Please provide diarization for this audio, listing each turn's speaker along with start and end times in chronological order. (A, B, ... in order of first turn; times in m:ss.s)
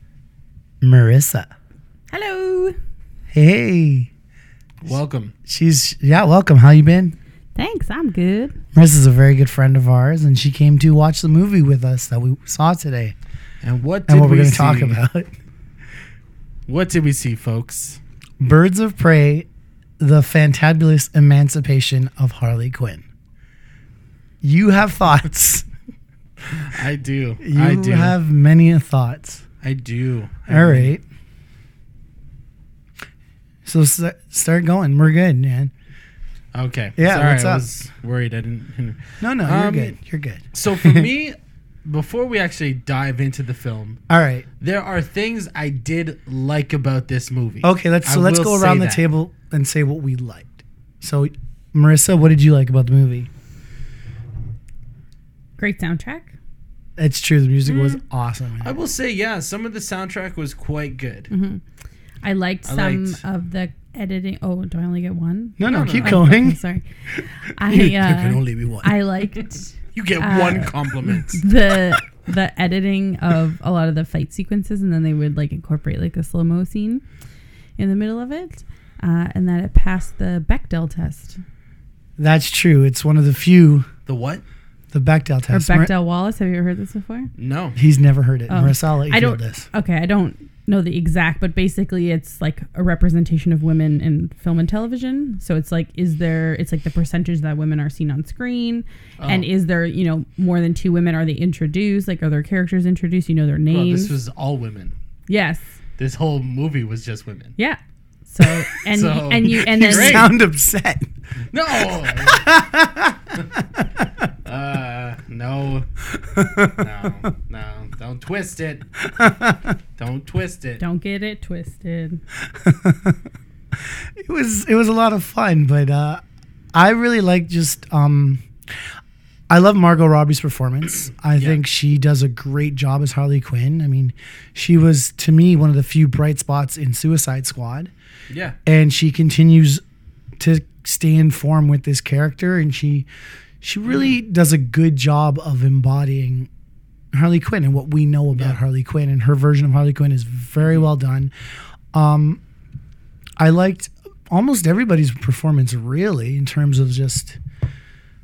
0:00.8-0:01.5 A
0:02.1-0:02.8 B
0:03.3-0:04.1 A
0:04.8-0:05.3 C
0:05.5-0:07.2 A
0:07.6-0:08.6 B
0:08.8-0:13.2 A
0:13.6-0:15.0 C
0:14.1-0:15.3 A
0:16.7-0:18.0 C
0:18.4-0:19.5 A
0:20.0-0:23.0 A
0:24.4-0:25.7 A
0:26.5-0:28.2 C
0:27.4-0:29.4 A
0:29.6-0:30.9 C
0:30.5-0:31.0 A
0:33.6-0:35.7 A
0:36.6-0:40.0 C
0:37.0-0:37.6 A
0:39.2-0:41.1 A
0:40.5-0:44.0 C
0:44.1-0:44.5 A
0:44.6-0:49.0 C
0:47.6-0:53.3 A
0:55.6-0:56.3 B
0:57.0-0:58.8 A
0:57.7-0:58.0 C
0:58.6-1:01.3 C
1:01.3-1:01.6 B
1:02.2-1:06.8 B
1:02.7-1:03.2 C
1:05.6-1:06.6 A
1:05.7-1:06.3 C
1:07.3-1:17.0 B
1:07.7-1:08.2 A
1:08.0-1:11.4 C
1:17.8-1:21.4 B
1:22.2-1:23.9 A
1:24.1-1:24.4 C
1:24.9-1:25.9 A
1:25.5-1:27.3 B
1:27.4-1:27.8 C
1:27.8-1:29.7 A
1:28.5-1:44.1 B
1:39.2-1:39.5 C
1:43.7-1:44.9 C
1:45.3-1:45.6 B
1:46.0-1:47.6 C
1:47.6-1:50.3 B
1:48.9-1:50.3 C
1:49.4-1:51.1 A
1:51.5-1:52.4 C
1:51.7-1:54.2 A
1:54.5-1:55.9 C
1:56.4-1:56.9 A
1:56.7-1:58.8 C
1:59.2-1:59.8 A
2:00.0-2:00.8 C
2:00.8-2:02.2 B
2:02.6-2:03.2 A
2:04.2-2:06.2 A
2:06.7-2:08.4 A
2:09.5-2:17.9 A
2:18.3-2:18.6 C
2:18.7-2:19.8 A
2:20.4-2:23.1 A
2:23.6-2:26.5 A
2:27.1-2:31.3 A
2:31.9-2:32.4 A
2:33.4-2:37.4 A